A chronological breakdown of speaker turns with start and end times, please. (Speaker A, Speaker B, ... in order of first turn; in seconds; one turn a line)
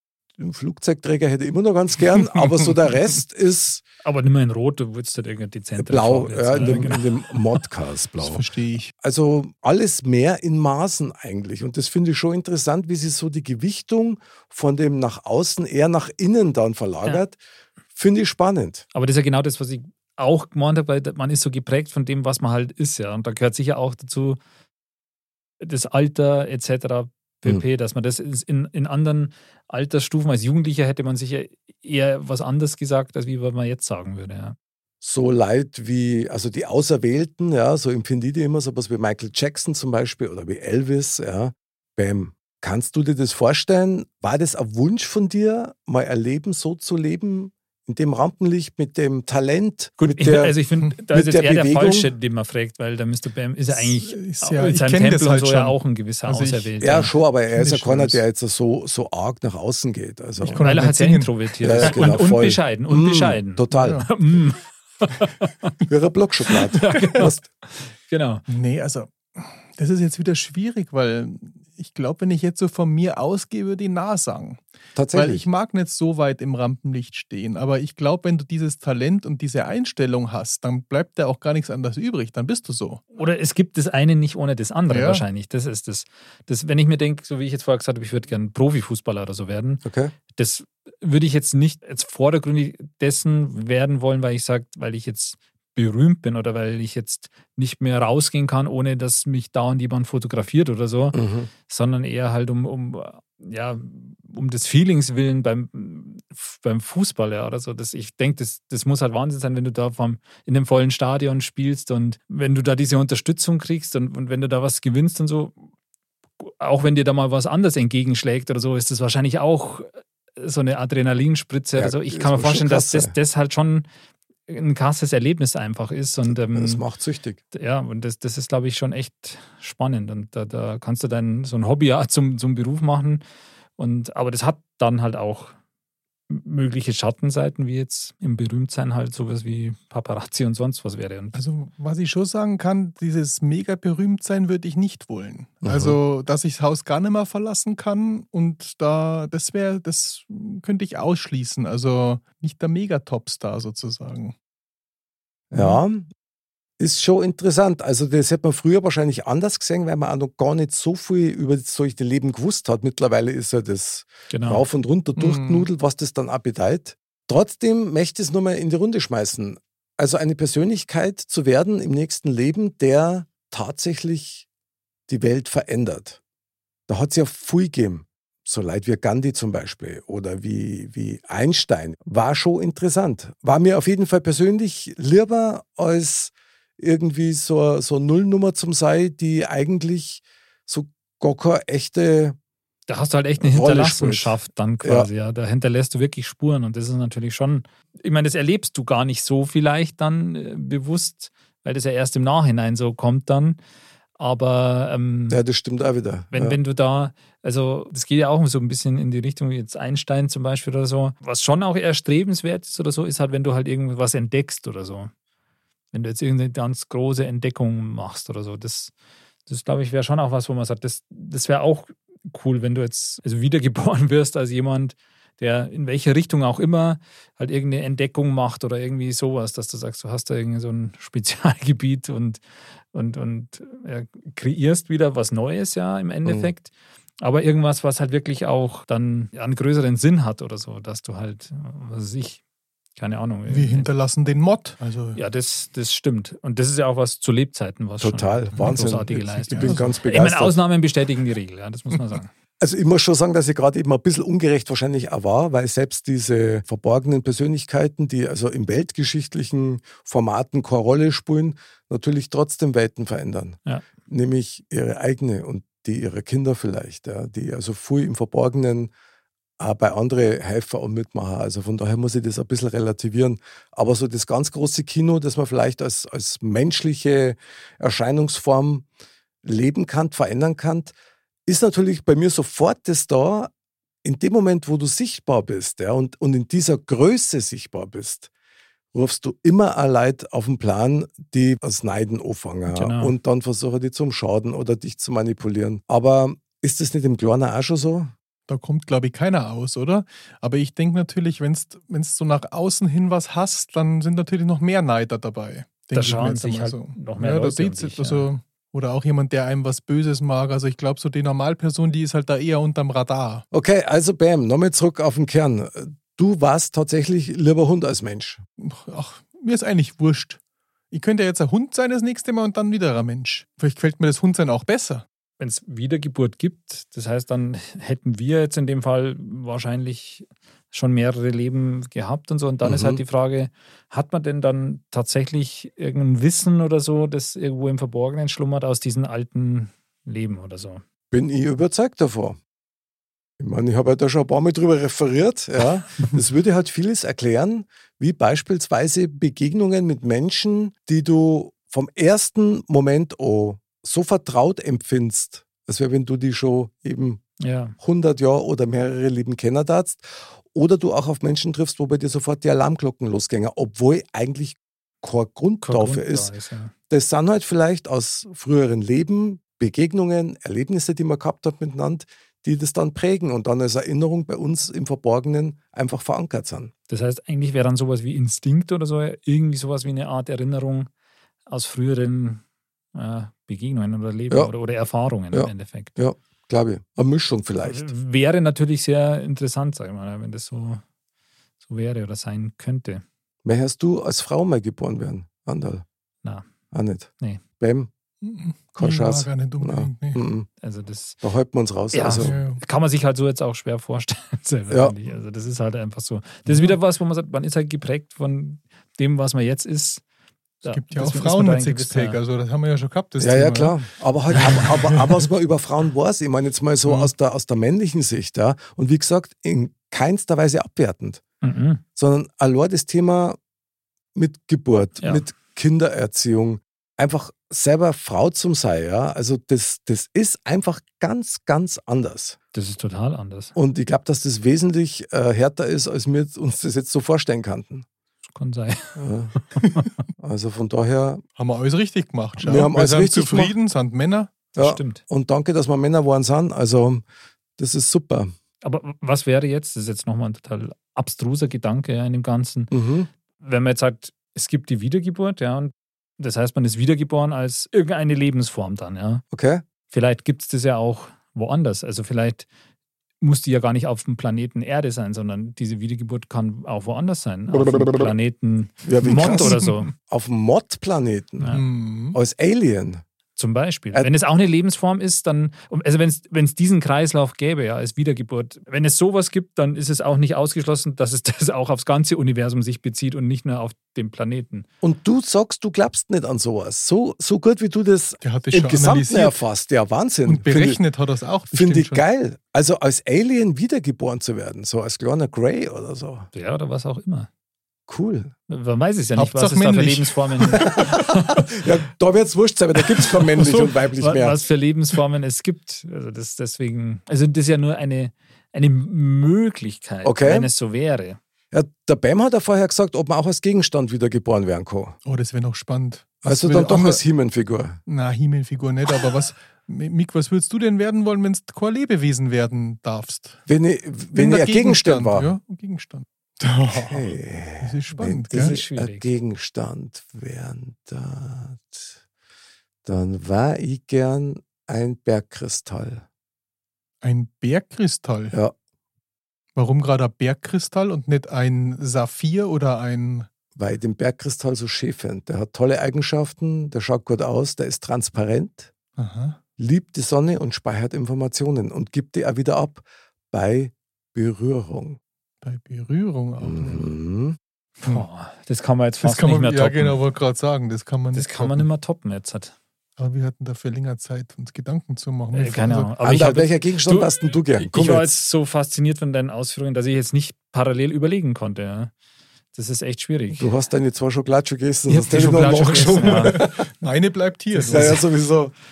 Speaker A: 0.4-3.8
Speaker B: 4.0-7.4
Speaker A: 5.8-8.4
Speaker C: 6.6-6.9
Speaker C: 8.2-8.9
Speaker A: 9.0-17.4
Speaker A: 17.9-18.9
Speaker B: 18.9-24.4
Speaker B: 25.6-34.6
Speaker A: 35.0-50.6
Speaker B: 50.1-57.1
Speaker A: 51.1-52.1
Speaker C: 53.7-56.7
Speaker A: 56.8-60.6
Speaker C: 57.5-58.2
Speaker C: 60.4-62.2
Speaker B: 60.6-65.7
Speaker A: 61.6-64.1
Speaker C: 63.7-64.1
Speaker A: 65.9-67.4
Speaker B: 66.7-68.4
Speaker C: 67.0-67.2
Speaker C: 68.5-74.6
Speaker A: 75.0-75.4
Speaker C: 75.1-83.0
Speaker B: 83.2-115.5
Speaker C: 84.9-85.2
Speaker A: 89.8-90.1
Speaker A: 101.1-101.5
Speaker B: 116.4-123.9
Speaker A: 121.8-123.1
Speaker B: 124.5-126.8
Speaker A: 126.3-127.4
Speaker B: 127.5-133.2
Speaker B: 133.8-135.6
Speaker B: 136.3-141.4
Speaker C: 141.3-154.3
Speaker A: 145.6-146.0
Speaker A: 155.5-156.1
Speaker A: 156.8-174.5
Speaker B: 164.3-164.7
Speaker C: 165.2-165.7
Speaker A: 175.1-176.2
Speaker A: 176.9-192.4
Speaker B: 192.9-203.6
Speaker A: 193.4-195.1
Speaker B: 204.2-205.4
Speaker A: 205.3-206.6
Speaker B: 206.3-215.1
Speaker B: 215.9-218.9
Speaker B: 219.5-232.4
Speaker B: 232.9-236.7
Speaker A: 236.2-236.5
Speaker B: 237.2-242.4
Speaker B: 243.0-243.9
Speaker C: 243.5-245.2
Speaker B: 245.2-252.3
Speaker A: 248.0-250.6
Speaker C: 248.6-250.0
Speaker A: 252.6-268.9
Speaker A: 269.6-278.9
Speaker A: 279.4-280.9
Speaker A: 281.5-283.5
Speaker A: 284.0-288.3
Speaker A: 288.9-298.1
Speaker B: 292.7-293.1
Speaker C: 298.5-313.4
Speaker B: 305.9-308.3
Speaker A: 313.5-318.4
Speaker C: 318.6-320.4
Speaker C: 320.9-325.1
Speaker B: 325.4-340.8
Speaker A: 332.6-333.0
Speaker A: 341.1-342.4
Speaker A: 343.4-357.2
Speaker B: 357.4-357.8
Speaker A: 357.8-366.3
Speaker B: 365.6-366.7
Speaker A: 366.9-376.7
Speaker B: 376.9-380.9
Speaker B: 381.5-382.4
Speaker B: 382.9-385.9
Speaker A: 385.3-387.9
Speaker B: 387.6-390.8
Speaker B: 391.6-393.0
Speaker A: 393.4-395.9
Speaker A: 396.7-397.9
Speaker C: 398.2-400.2
Speaker A: 398.8-400.5
Speaker B: 400.6-401.2
Speaker A: 401.2-402.3
Speaker B: 401.9-410.0
Speaker C: 402.2-402.6
Speaker A: 404.7-405.0
Speaker C: 406.5-406.8
Speaker B: 410.6-412.2
Speaker C: 410.6-415.2
Speaker A: 413.2-421.2
Speaker C: 416.9-417.1
Speaker B: 421.4-421.8
Speaker A: 422.0-423.4
Speaker A: 424.1-432.4
Speaker B: 432.5-433.5
Speaker A: 433.6-437.9
Speaker B: 438.4-439.8
Speaker A: 439.0-439.3
Speaker A: 440.2-441.2
Speaker C: 441.4-444.3
Speaker A: 442.4-443.5
Speaker A: 444.6-447.0
Speaker B: 444.6-445.0
Speaker A: 447.6-448.3
Speaker B: 448.6-452.7
Speaker A: 452.7-453.1
Speaker B: 453.4-459.2
Speaker A: 459.3-459.6
Speaker B: 459.9-462.5
Speaker B: 463.2-469.9
Speaker A: 467.5-468.1
Speaker A: 468.8-471.6
Speaker C: 469.0-469.9
Speaker C: 471.5-472.2
Speaker A: 472.1-473.0
Speaker B: 473.4-484.7
Speaker A: 484.8-490.8
Speaker C: 488.2-489.4
Speaker C: 490.3-492.0
Speaker A: 491.5-496.3
Speaker B: 496.3-497.3
Speaker A: 497.9-498.3
Speaker B: 498.5-501.6
Speaker C: 499.2-501.0
Speaker A: 501.5-504.4
Speaker B: 503.4-511.2
Speaker A: 510.0-510.5
Speaker A: 511.5-515.0
Speaker C: 515.0-517.0
Speaker A: 516.2-517.8
Speaker C: 517.9-523.4
Speaker A: 523.5-525.3
Speaker C: 524.1-528.6
Speaker A: 526.7-531.9
Speaker B: 528.3-529.1
Speaker A: 532.9-536.0
Speaker C: 537.0-538.4
Speaker C: 539.6-543.3
Speaker A: 543.6-548.7
Speaker C: 549.0-549.4
Speaker A: 549.6-555.0
Speaker C: 555.4-556.9
Speaker A: 556.4-557.4
Speaker B: 557.8-560.0
Speaker C: 559.0-561.7
Speaker B: 561.1-562.5
Speaker C: 563.0-565.9
Speaker B: 565.3-571.9
Speaker A: 566.0-568.1
Speaker B: 572.5-573.5
Speaker A: 573.4-576.6
Speaker B: 574.9-576.4
Speaker C: 575.8-578.0
Speaker B: 577.6-578.0
Speaker A: 577.7-578.5